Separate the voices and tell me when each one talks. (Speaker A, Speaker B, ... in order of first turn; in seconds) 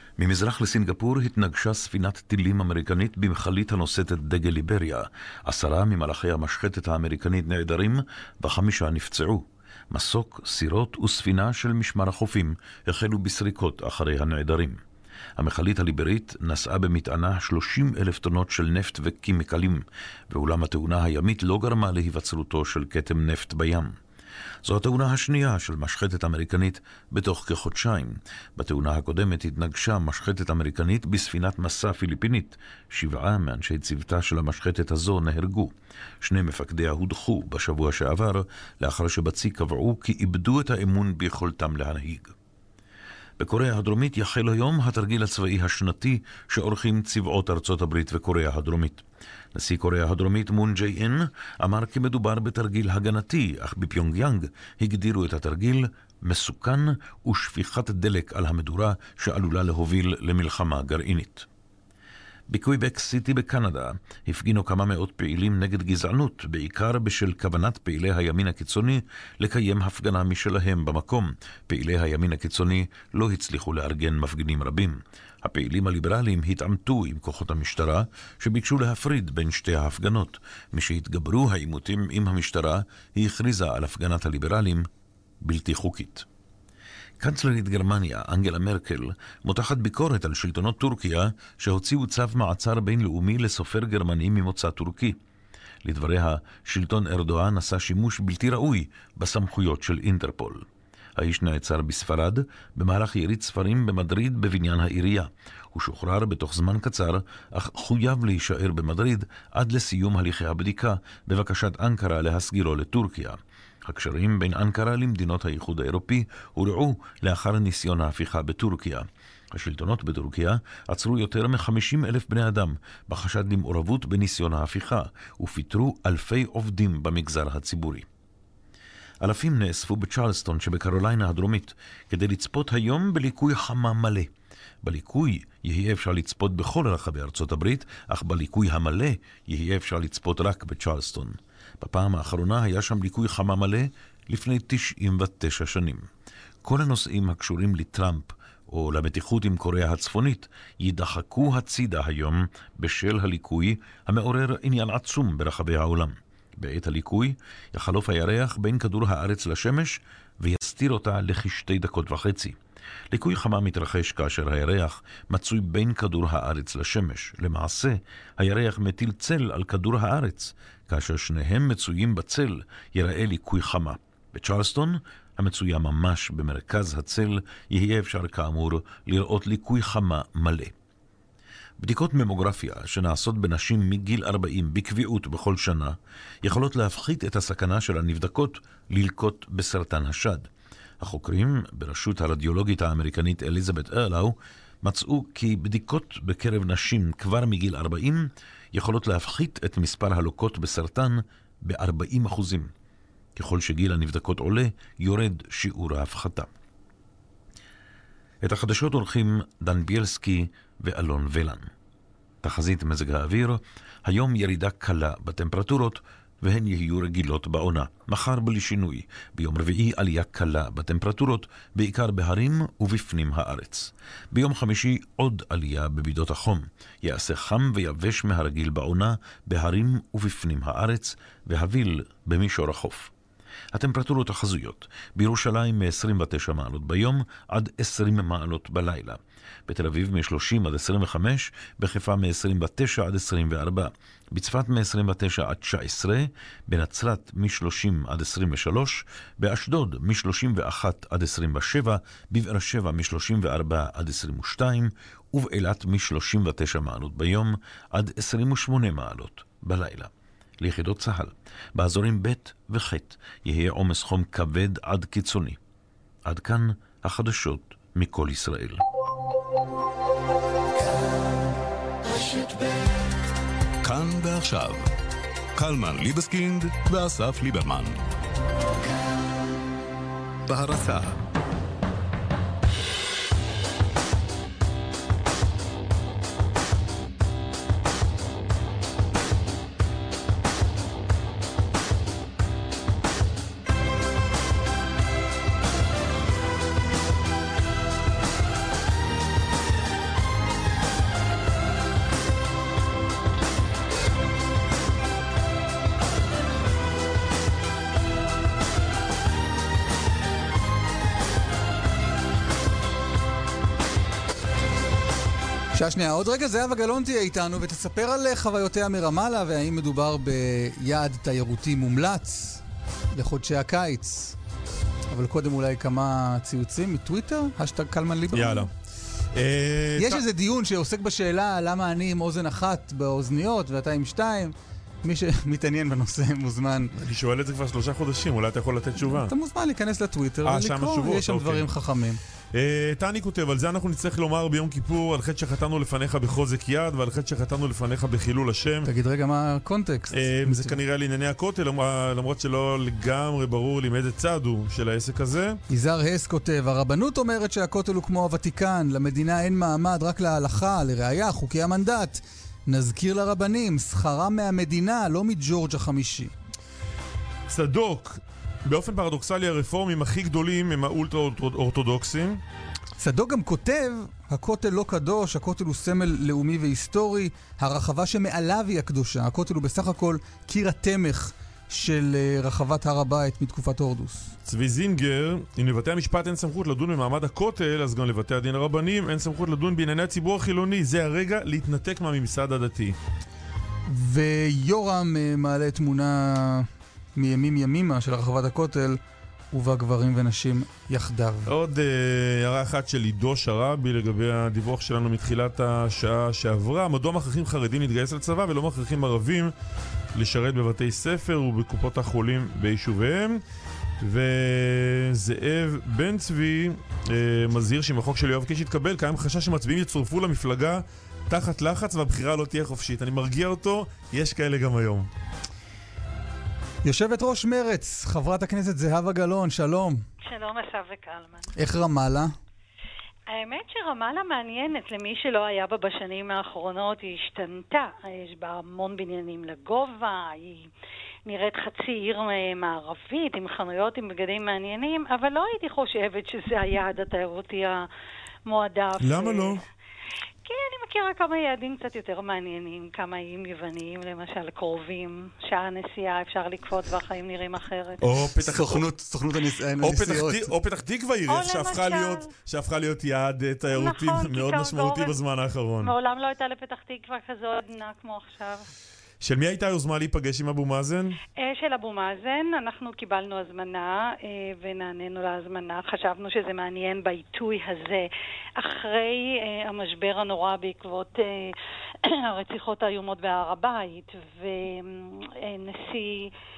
Speaker A: 0.2-14.8, 15.4-23.9, 24.6-42.3, 43.4-49.0, 49.5-61.5, 62.5-84.9, 85.4-86.2, 87.2-95.2, 95.8-100.7, 101.2-128.1, 129.2-134.3, 134.8-146.1, 146.6-162.6, 163.1-180.7, 181.8-190.5, 191.0-202.7, 203.4-206.5, 208.4-211.7, 212.4-233.1, 233.7-260.1, 260.6-265.6, 266.3-268.8
Speaker B: 273.8-274.9, 275.6-278.0, 280.5-281.1
Speaker C: 315.7-324.4, 325.1-328.7, 330.0-336.9, 339.0-342.2, 348.9-350.8, 355.7-366.3, 373.0-384.3, 393.9-399.0, 399.5-401.5, 426.8-430.0, 431.6-432.3, 458.4-460.5
Speaker D: 328.3-328.7, 329.3-330.2, 337.0-339.3, 340.5-341.7, 342.5-348.9, 350.1-355.6, 367.5-372.4, 384.4-392.9, 401.5-409.5, 410.1-413.4, 414.0-425.1, 449.0-449.6, 458.0-458.9, 459.8-465.9, 469.2-471.2
Speaker E: 430.2-431.5, 433.3-440.7, 441.3-447.9, 448.5-449.6, 450.5-458.0, 461.3-462.3, 463.7-465.2, 465.8-468.7, 471.4-481.6, 482.1-486.3